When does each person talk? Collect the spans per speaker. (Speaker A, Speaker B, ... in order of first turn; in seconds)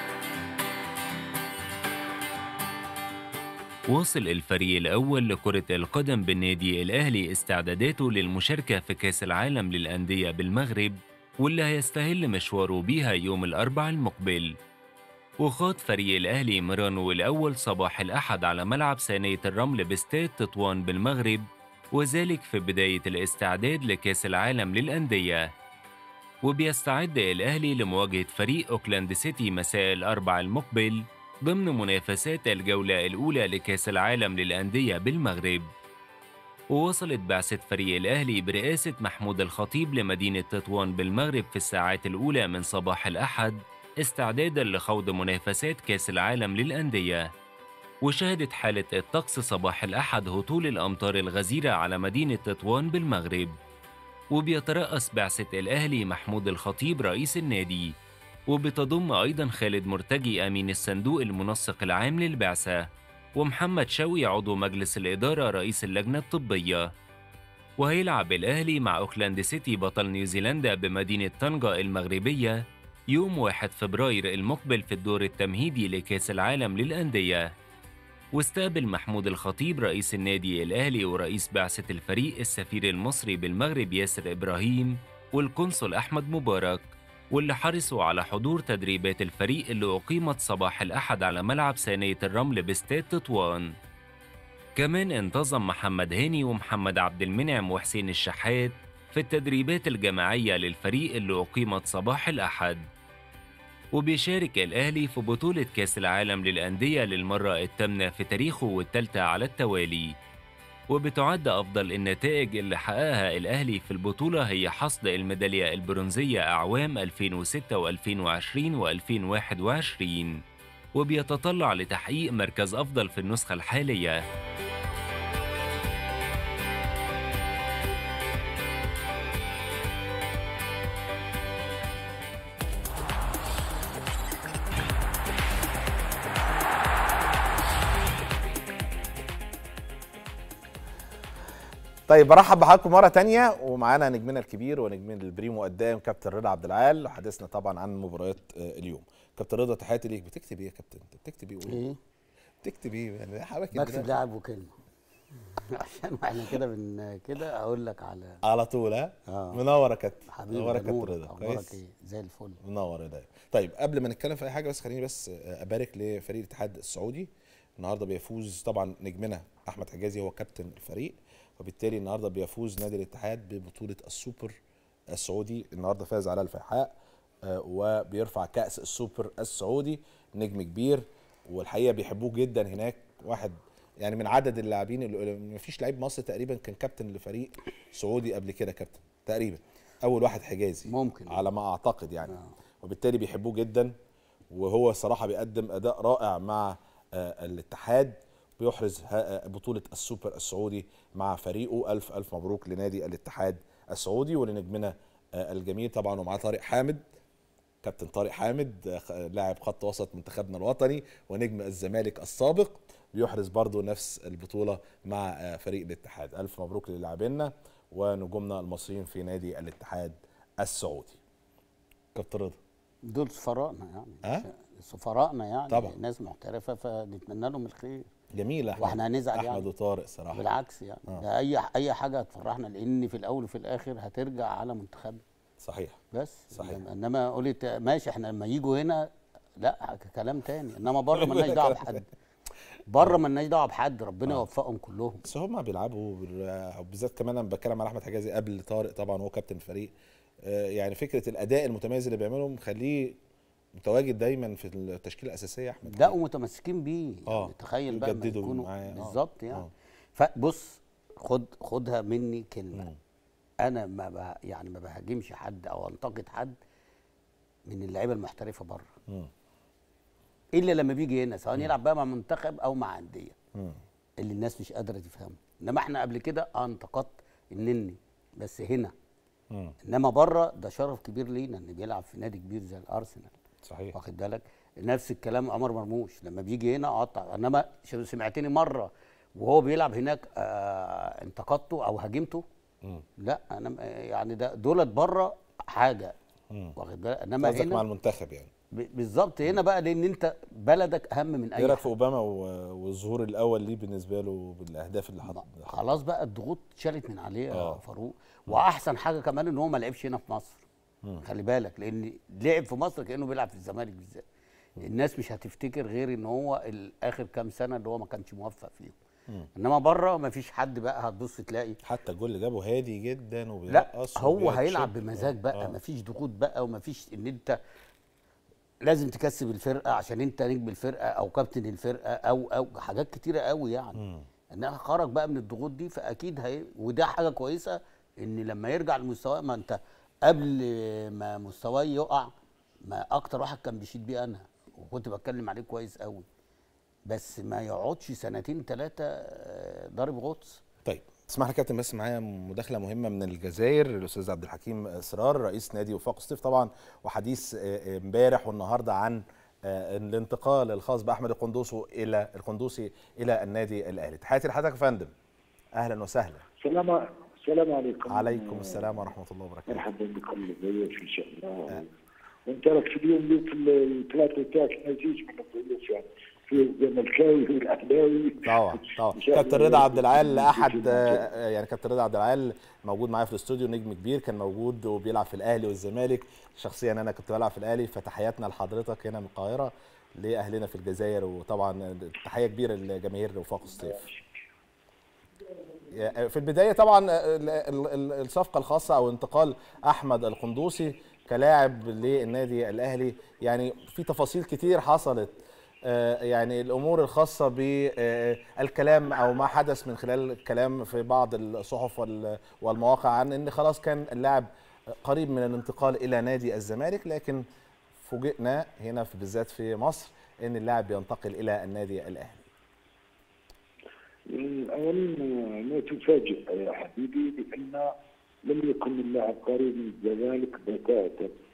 Speaker A: 3.9-14.5, 15.4-25.5, 26.4-35.7, 36.7-47.3, 48.0-53.5, 54.3-57.9, 58.5-62.9, 63.4-66.9, 67.8-72.6, 73.1-77.5, 78.4-93.7, 94.8-102.8, 103.9-110.1, 110.9-120.4, 121.0-124.2
Speaker B: 142.1-151.8, 152.6-154.1, 158.4-161.8, 162.6-174.6, 175.1-176.9, 177.4-193.9, 194.5-207.0, 207.8-221.2, 222.2-222.6, 225.7-225.9, 228.3-230.5, 235.6-236.0, 236.5-236.8, 241.1-242.0, 245.2-249.9, 250.4-253.2, 253.8-256.1, 257.3-259.7, 283.6-283.9, 297.4-298.5, 301.6-305.7, 307.5-307.8, 321.8-325.8, 334.0-334.2, 350.9-365.1, 365.8-366.4, 368.1-369.8, 378.4-394.0, 395.9-417.4, 418.0-422.4
Speaker C: 151.7-152.0, 153.7-154.7, 155.5-158.4, 159.3-159.6, 160.3-162.6, 190.9-191.4, 192.3-192.5, 223.1-228.1, 228.8-229.7, 230.3-235.2, 236.1-239.1, 239.6-242.1, 242.9-245.2, 255.9-262.9, 263.6-266.6, 267.7-268.9, 270.5-273.4, 274.2-278.9, 279.9-283.3, 283.9-292.4, 293.2-296.1, 296.8-297.8, 298.7-301.9, 305.3-310.6, 311.2-314.2, 314.8-319.0, 319.6-321.8, 323.7-327.6, 328.9-334.0, 334.5-342.3, 342.9-346.3, 347.1-350.6
Speaker D: 366.6-369.1, 369.7-371.9, 372.5-381.2, 424.3-427.9, 428.4-431.3